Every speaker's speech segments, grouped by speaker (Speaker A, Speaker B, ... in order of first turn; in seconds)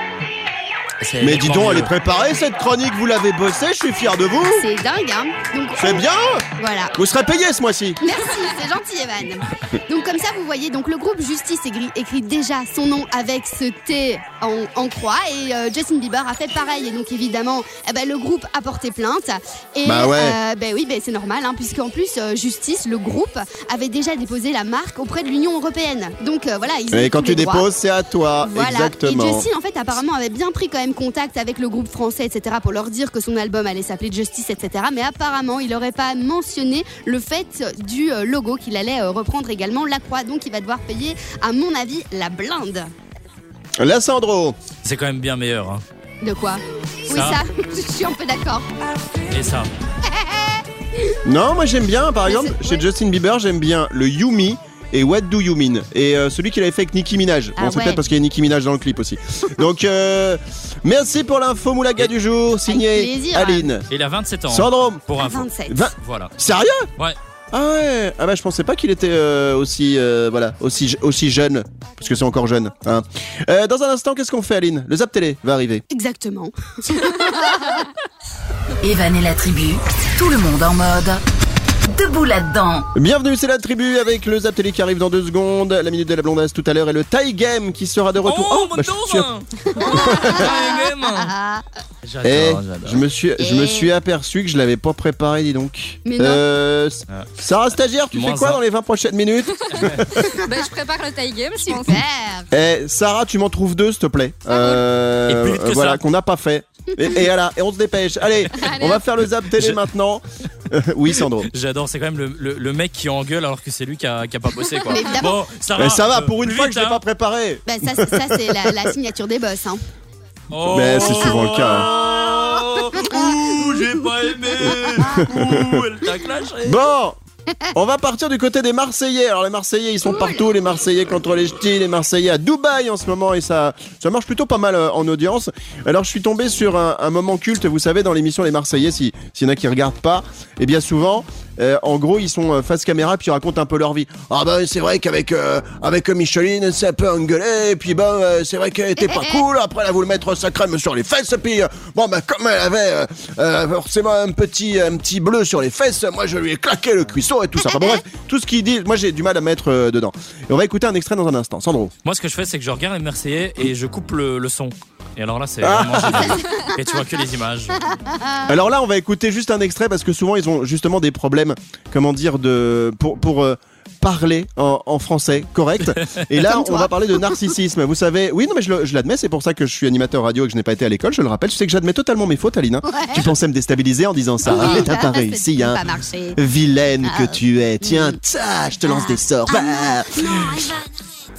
Speaker A: 1.0-1.9, 44.8-45.8, 47.1-47.4, 49.3-49.7, 63.9-66.3, 88.2-91.3, 92.0-93.0, 98.1-98.6, 105.3-106.0, 109.6-109.8, 111.5-117.0, 120.5-126.8, 162.1-167.8
Speaker B: 1.2-4.7, 5.8-8.0, 19.8-20.4, 26.9-29.5, 43.8-44.6, 51.2-63.9, 64.5-65.0, 65.7-66.9, 67.5-75.8, 82.9-89.3, 89.9-90.5, 92.2-100.0, 102.5-111.5, 115.8-118.9, 120.7-121.9, 124.7-125.8, 126.6-127.2, 127.7-161.9, 165.6-166.4, 168.5-190.7
Speaker C: 4.4-6.0, 6.6-6.9, 8.0-27.7, 28.4-42.9, 46.2-48.7, 50.1-51.2, 52.2-52.9, 57.6-58.0, 62.7-63.7, 65.2-65.9, 75.9-77.9, 89.8-91.6, 93.4-93.9, 96.0-96.4, 100.2-100.5, 101.6-102.5, 114.9-115.4, 117.7-119.8, 123.0-123.3, 149.0-149.4, 157.6-158.0, 168.1-168.5, 176.4-177.4, 182.8-183.3, 184.4-186.4, 187.0-188.2, 188.9-190.8
Speaker D: 78.8-81.2, 81.9-82.9
Speaker E: 100.2-102.0, 104.5-104.8, 108.5-109.0